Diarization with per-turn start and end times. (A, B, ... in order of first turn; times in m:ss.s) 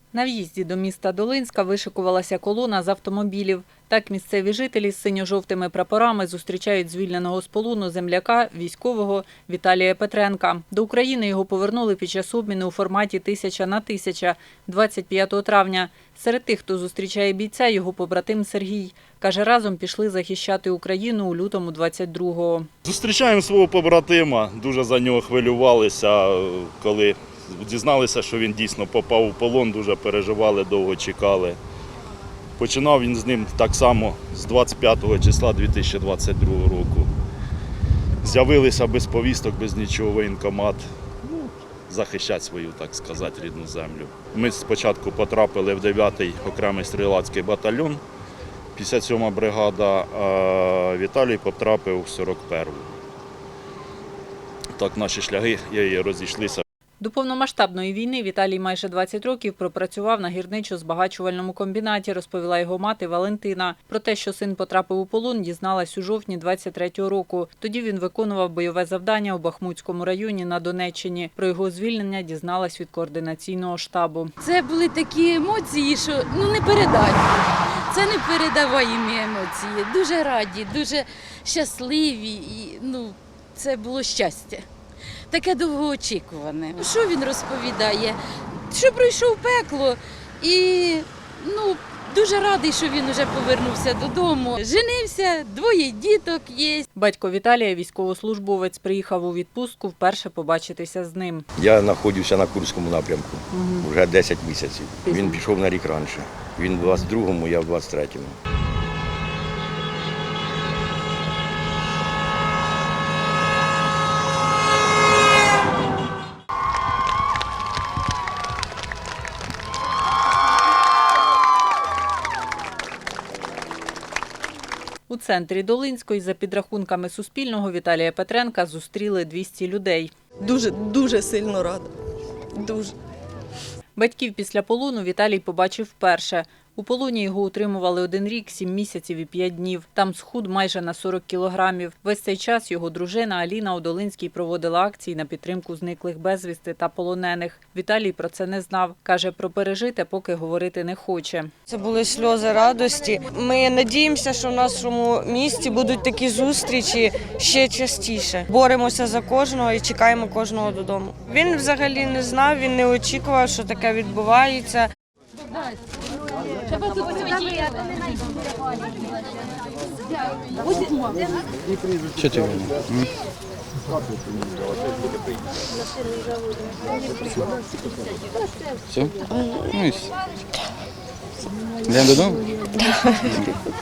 0:00.1-0:22.7 A
0:22.8-0:31.6 B
0:32.6-0:37.1 B
0:38.2-0:40.9 B
0:41.9-0:48.0 B
0:48.8-0:52.9 B
0:54.8-0:56.6 B
0:57.0-1:14.3 A
1:14.4-1:17.3 C
1:17.9-1:24.7 C
1:25.3-1:28.2 C
1:28.7-1:36.9 C
1:37.0-1:41.5 A
1:41.6-1:48.4 D
1:43.5-1:43.8 A
1:45.1-1:45.4 A
2:05.1-2:10.1 A
2:10.4-2:11.9 E
2:12.5-2:12.9 E
2:14.0-2:31.5 A
2:31.7-2:44.9 F
2:46.7-2:47.9 C
2:50.6-2:51.1 C
2:52.2-2:53.1 G
2:58.9-2:59.2 G
2:59.7-3:00.1 G
3:01.9-3:02.4 G